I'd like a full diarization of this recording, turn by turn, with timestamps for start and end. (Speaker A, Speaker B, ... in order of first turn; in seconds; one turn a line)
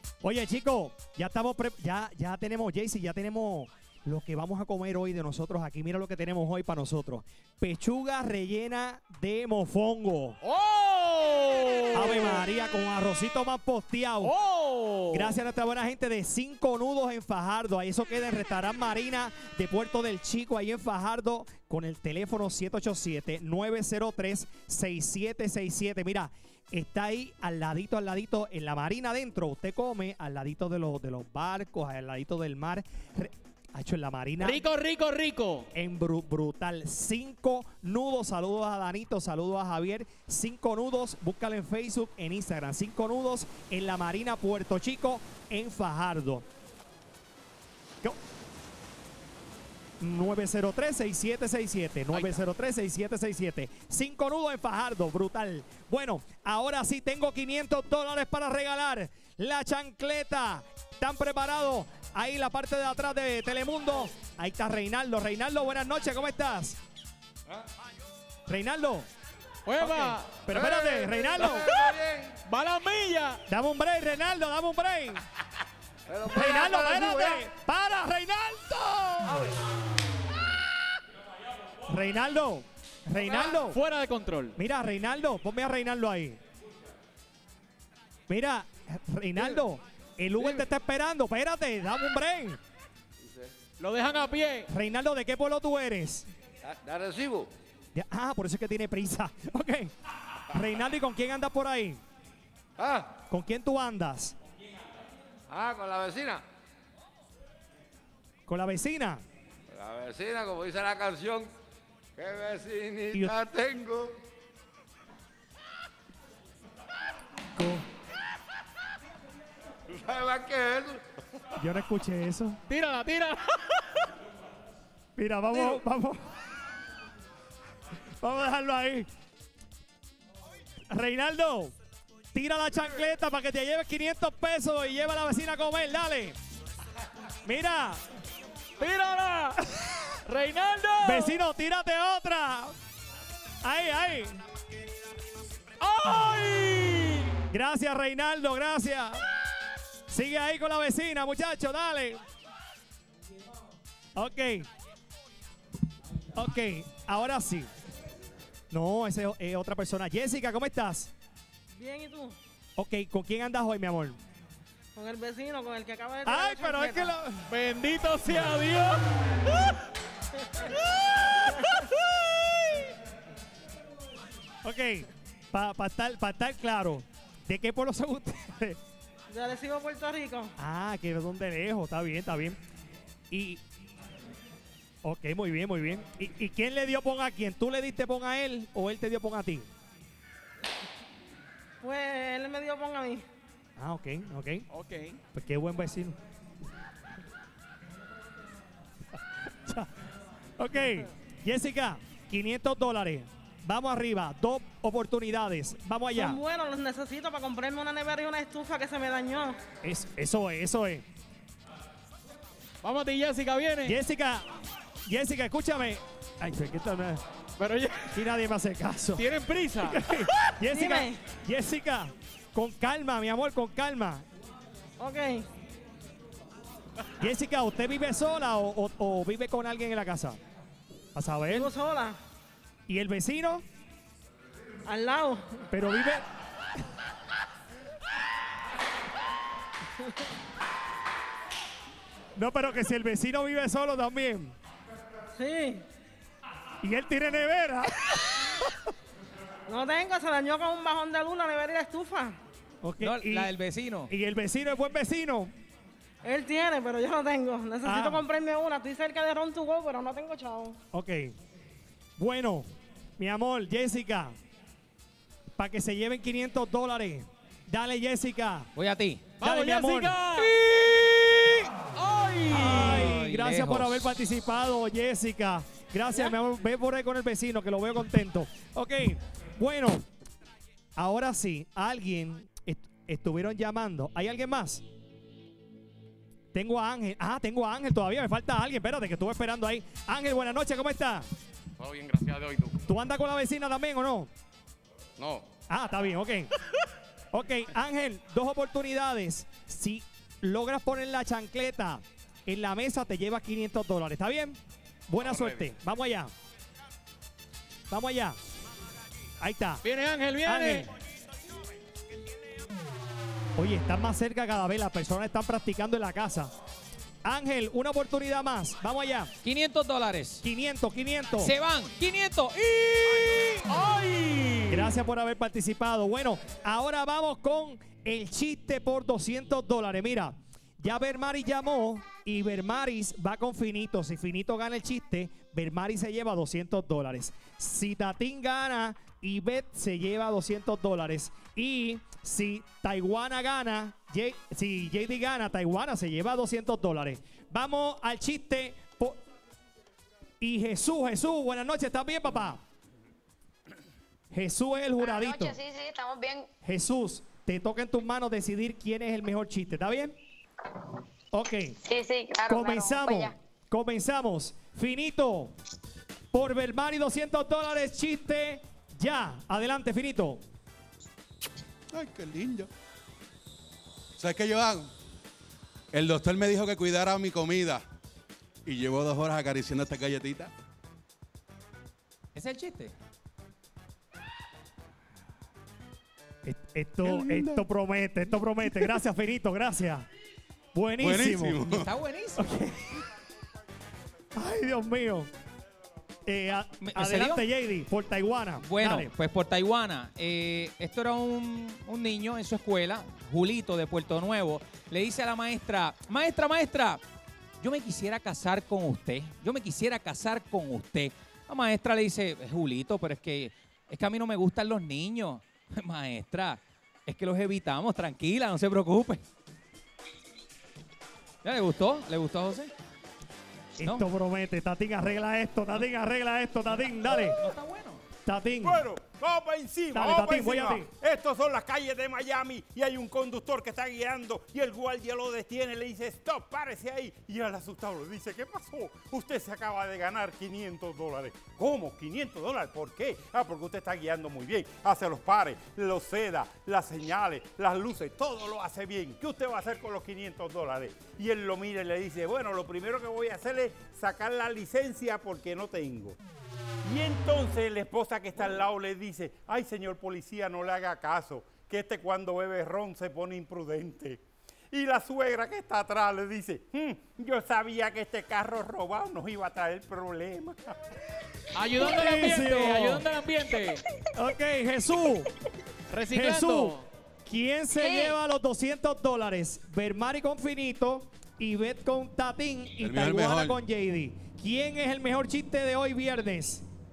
Speaker A: 0.2-10.4
Speaker B: 10.4-12.4
Speaker A: 11.9-14.3
Speaker B: 14.2-15.3
Speaker A: 15.1-34.6
Speaker B: 34.4-35.7
Speaker A: 35.7-46.5
Speaker A: 50.0-66.8
Speaker B: 52.1-52.4
Speaker A: 68.5-69.1
Speaker B: 69.7-73.4
Speaker A: 69.8-71.7
Speaker C: 72.1-72.3
Speaker A: 73.5-75.2
Speaker C: 76.1-77.3
Speaker A: 76.2-79.5
Speaker A: 81.9-83.8
Speaker B: 83.3-84.5
Speaker A: 84.6-86.4
Speaker A: 88.3-92.6
Speaker B: 93.8-94.7
Speaker A: 94.7-96.3
Speaker C: 96.6-97.5
Speaker A: 98.0-99.9
Speaker A: 100.5-102.0
Speaker C: 102.8-103.1
Speaker A: 103.3-104.3
Speaker C: 105.5-106.4
Speaker A: 108.5-109.2
Speaker C: 109.7-111.5
Speaker C: 112.2-114.2
Speaker A: 113.1-113.4
Speaker A: 117.6-117.9
Speaker C: 119.9-121.0
Speaker A: 121.6-122.6
Speaker B: 122.7-123.8
Speaker A: 125.2-126.3
Speaker B: 125.5-125.8
Speaker A: 128.2-129.1
Speaker A: 130.9-131.7
Speaker A: 132.3-136.4
Speaker A: 137.4-138.0
Speaker B: 138.8-141.3
Speaker A: 141.0-142.8
Speaker A: 143.6-144.4
Speaker B: 145.8-147.3
Speaker A: 147.5-149.2
Speaker A: 150.1-152.2
Speaker A: 154.2-154.7
Speaker A: 156.3-157.7
Speaker A: 158.7-161.1
Speaker D: 161.7-162.4
Speaker A: 162.8-164.2
Speaker D: 164.9-167.2
Speaker A: 166.2-167.5
Speaker B: 167.5-169.8
Speaker B: 171.4-172.9
Speaker A: 174.6-178.8
Speaker D: 179.3-180.5
Speaker A: 180.6-182.6
Speaker A: 183.3-183.6
Speaker A: 185.0-189.7
Speaker D: 191.8-193.3
Speaker A: 193.8-194.7
Speaker B: 194.7-195.2
Speaker A: 195.3-196.2
Speaker A: 199.4-199.9
Speaker A: 200.6-206.4
Speaker D: 206.2-209.6
Speaker A: 209.8-211.1
Speaker B: 212.8-214.0
Speaker A: 213.8-214.5
Speaker A: 215.1-217.2
Speaker B: 217.6-218.2
Speaker A: 218.1-219.3
Speaker B: 219.2-220.3
Speaker A: 219.9-224.2
Speaker D: 220.7-221.2
Speaker D: 225.0-225.5
Speaker A: 227.2-230.4
Speaker A: 231.2-231.7
Speaker D: 231.5-232.2
Speaker A: 232.9-233.6
Speaker D: 234.9-235.7
Speaker A: 235.7-236.2
Speaker A: 242.4-244.5
Speaker D: 245.4-245.9
Speaker A: 246.8-248.8
Speaker D: 249.7-252.4
Speaker A: 252.8-253.5
Speaker E: 253.0-254.1
Speaker A: 254.1-255.5
Speaker D: 256.2-260.8
Speaker A: 257.8-258.3
Speaker A: 260.9-261.3
Speaker A: 262.2-264.3
Speaker A: 265.6-268.7
Speaker E: 268.8-269.3
Speaker B: 269.4-273.2
Speaker A: 269.4-270.2
Speaker A: 272.5-280.0
Speaker E: 273.0-273.9
Speaker A: 281.0-284.8
Speaker A: 286.5-291.3
Speaker A: 292.8-294.3
Speaker A: 295.7-296.5
Speaker A: 297.3-306.3
Speaker A: 307.9-308.4
Speaker A: 309.4-309.9
Speaker B: 309.8-310.9
Speaker A: 310.4-310.9
Speaker A: 313.6-316.5
Speaker A: 317.2-319.3
Speaker E: 319.4-320.4
Speaker A: 320.4-321.5
Speaker E: 321.4-323.6
Speaker B: 323.6-324.9
Speaker A: 324.7-349.2
Speaker A: 350.4-352.6
Speaker A: 354.3-355.6
Speaker F: 355.0-356.5
Speaker A: 356.6-360.1
Speaker A: 361.3-361.8
Speaker F: 361.8-363.3
Speaker A: 362.5-365.5
Speaker A: 366.3-370.4
Speaker G: 371.9-372.7
Speaker G: 374.2-374.9
Speaker G: 375.9-377.8
Speaker G: 378.7-380.5
Speaker E: 382.4-382.9
Speaker A: 386.4-390.1
Speaker G: 387.0-387.6
Speaker A: 390.7-391.6
Speaker G: 391.0-391.9
Speaker E: 391.7-392.5
Speaker A: 392.4-393.0
Speaker A: 394.4-395.3
Speaker A: 396.2-399.1
Speaker E: 396.8-397.4
Speaker E: 398.6-407.0
Speaker E: 407.6-419.2
Speaker E: 421.4-422.7
Speaker A: 423.8-427.5
Speaker E: 427.2-428.0
Speaker A: 428.2-428.8
Speaker H: 428.6-456.2
Speaker A: 429.9-430.9
Speaker H: 456.8-464.2
Speaker H: 464.7-470.8
Speaker B: 471.5-473.8
Speaker A: 471.8-473.0
Speaker A: 474.1-475.3
Speaker B: 475.9-476.9
Speaker A: 476.1-486.6
Speaker F: 477.8-478.1
Speaker G: 482.8-483.6